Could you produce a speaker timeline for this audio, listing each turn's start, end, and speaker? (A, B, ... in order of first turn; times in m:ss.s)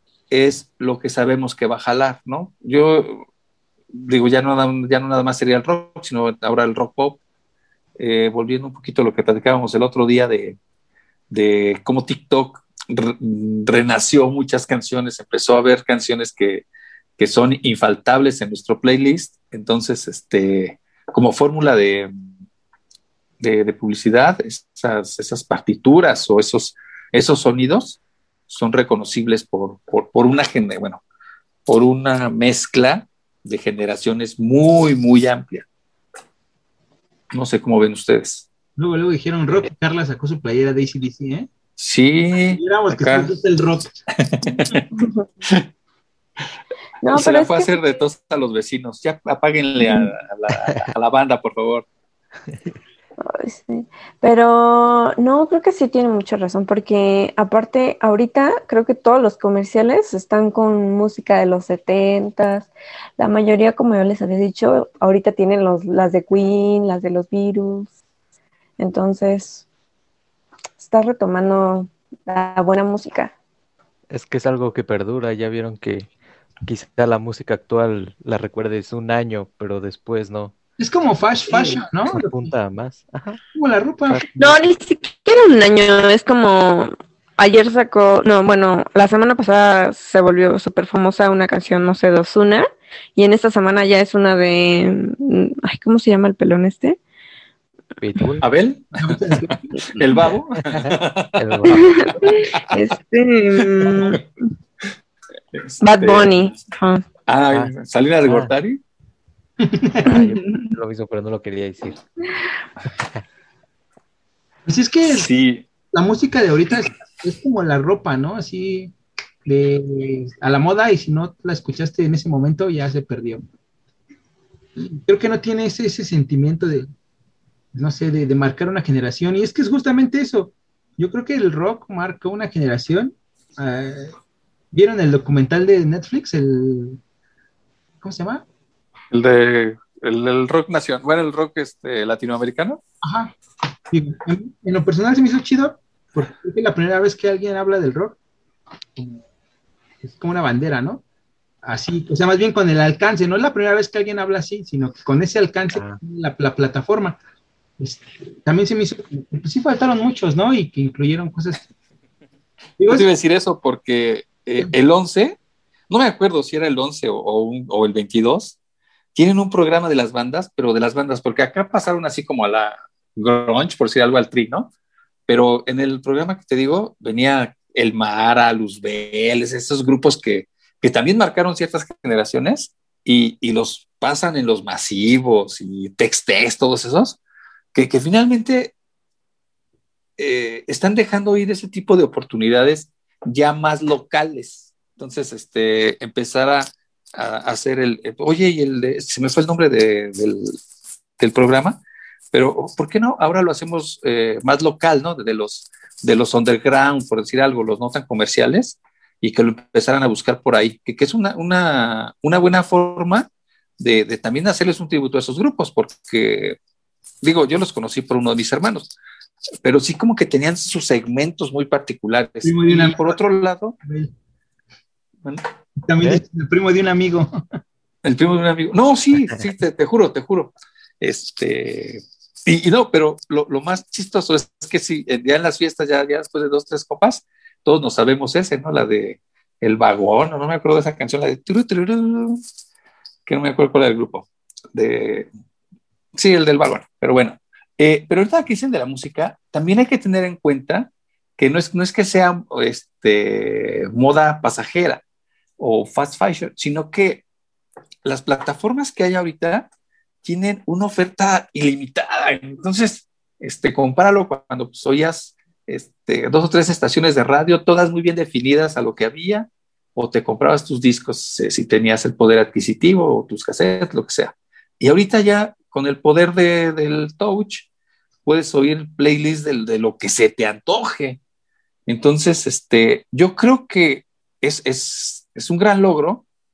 0:00.3-0:03.2 A
0:03.9-0:07.2 A
0:08.0-0:10.6 A
0:11.3-0:16.6 A
0:17.2-0:22.1 A
0:23.4-0:31.0 A
0:31.7-0:35.6 A
0:37.3-0:38.4 A
0:38.8-0:41.5 B
0:41.8-0:43.3 A
0:42.5-0:43.9 B
0:44.2-0:44.8 A
0:44.9-0:45.3 C
0:47.0-0:47.8 C
0:47.1-0:51.8 A
0:49.8-0:50.1 C
0:53.2-1:07.9 C
1:08.8-1:09.6 C
1:10.8-1:13.3 C
1:14.1-1:16.1 D
1:16.6-1:20.5 D
1:20.8-1:22.5 B
1:21.5-1:23.4 D
1:23.5-1:24.3 B
1:24.1-1:24.5 D
1:24.4-1:37.0 C
1:38.0-1:38.4 D
1:38.4-1:41.7 A
1:39.0-1:40.0 B
1:40.7-1:41.9 D
1:41.7-1:44.2 C
1:45.5-1:46.5 A
1:45.8-1:47.0 C
1:47.3-1:48.8 A
1:48.2-1:48.5 D
1:49.6-1:50.1 B
1:50.0-1:52.0 D
1:50.1-1:50.6 C
1:54.6-1:55.3 B
1:55.1-1:55.6 A
1:55.9-1:58.9 B
1:59.4-2:03.4 B
2:04.8-2:06.9 B
2:07.7-2:14.2 B
2:14.7-2:17.0 B
2:18.0-2:18.4 B
2:19.1-2:22.8 A
2:23.0-2:23.3 B
2:23.9-2:28.2 B
2:29.0-2:29.2 B
2:30.0-2:31.0 B
2:31.6-2:37.2 B
2:35.7-2:36.0 D
2:37.8-2:41.6 B
2:42.8-2:43.1 B
2:42.9-2:45.4 A
2:45.9-2:48.6 A
2:49.1-2:54.7 A
2:55.3-3:07.2 A
3:07.7-3:08.7 A
3:10.2-3:20.6 A
3:21.2-3:21.8 A
3:22.3-3:33.3 A
3:33.8-3:36.6 A
3:37.2-3:38.9 A
3:39.6-3:43.8 A
3:42.4-3:43.2 B
3:43.8-3:44.1 B
3:45.8-3:47.4 B
3:48.0-4:02.4 A
4:03.2-4:05.3 A
4:06.1-4:15.0 A
4:15.6-4:17.2 A
4:18.0-4:19.7 A
4:20.2-4:37.7 A
4:38.2-4:41.2 A
4:41.9-4:46.2 A